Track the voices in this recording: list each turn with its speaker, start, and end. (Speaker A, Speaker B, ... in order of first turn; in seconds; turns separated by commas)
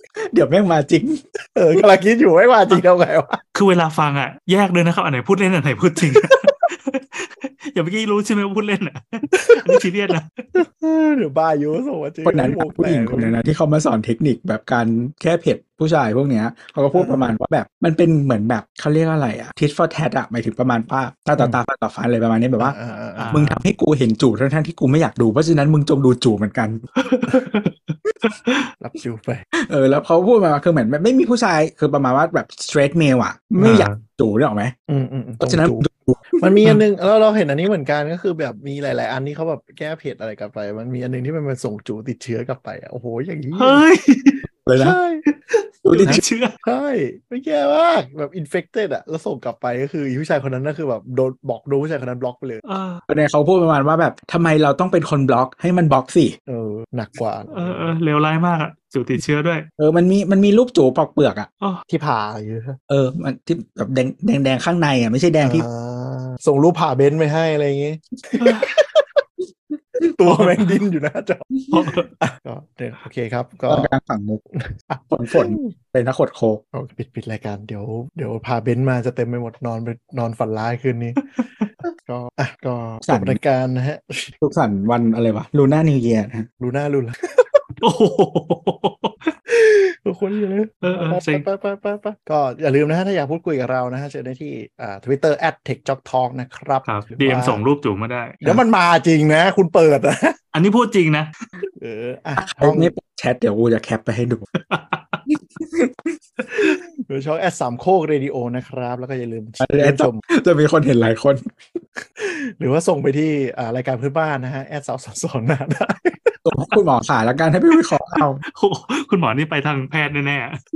Speaker A: 0.3-1.2, Speaker B: 1.6-3.4, Speaker C: 3.5-10.6, Speaker B: 9.3-9.8, Speaker B: 10.6-13.4, Speaker A: 12.2-22.7, Speaker B: 16.9-17.4, Speaker B: 22.6-23.4, Speaker C: 23.2-23.6, Speaker A: 23.3-26.9, Speaker C: 27.0-28.7, Speaker B: 28.8-29.4, Speaker A: 29.5-34.7, Speaker C: 33.6-34.0, Speaker B: 34.9-35.9, Speaker A: 35.4-36.7, Speaker B: 36.4-43.8, Speaker C: 43.5-44.5, Speaker A: 44.5-45.0, Speaker B: 44.8-45.2, Speaker A: 45.8-46.2, Speaker C: 45.9-46.6, Speaker B: 46.0-52.6, Speaker C: 52.6-53.0, Speaker A: 53.1-56.4, Speaker B: 56.5-58.0, Speaker C: 57.5-59.7, Speaker A: 59.8-61.5, Speaker B: 61.9-62.8, Speaker A: 62.9-65.7, Speaker B: 65.4-69.2, Speaker C: 68.4-68.7, Speaker B: 70.0-71.5, Speaker C: 70.3-70.5, Speaker C: 71.7-72.1, Speaker B: 72.2-73.9, Speaker A: 73.7-74.4, Speaker B: 74.5-75.7, Speaker A: 75.1-76.6, Speaker B: 76.7-81.2, Speaker C: 81.2-81.7, Speaker B: 82.0-84.3, Speaker A: 83.0-83.4, Speaker A: 84.4-86.5, Speaker B: 86.6-87.6, Speaker C: 87.8-89.3, Speaker B: 89.5-97.6, Speaker C: 90.8-91.4, Speaker C: 96.8-98.4, Speaker B: 98.4-100.4, Speaker C: 100.5-101.3, Speaker B: 101.8-102.9, Speaker A: 102.4-104.5, Speaker C: 104.5-105.2, Speaker A: 105.3-106.2, Speaker B: 106.5-110.2, Speaker A: 109.6-111.4, Speaker B: 112.0-116.4, Speaker A: 116.4-118.4, Speaker C: 118.5-120.6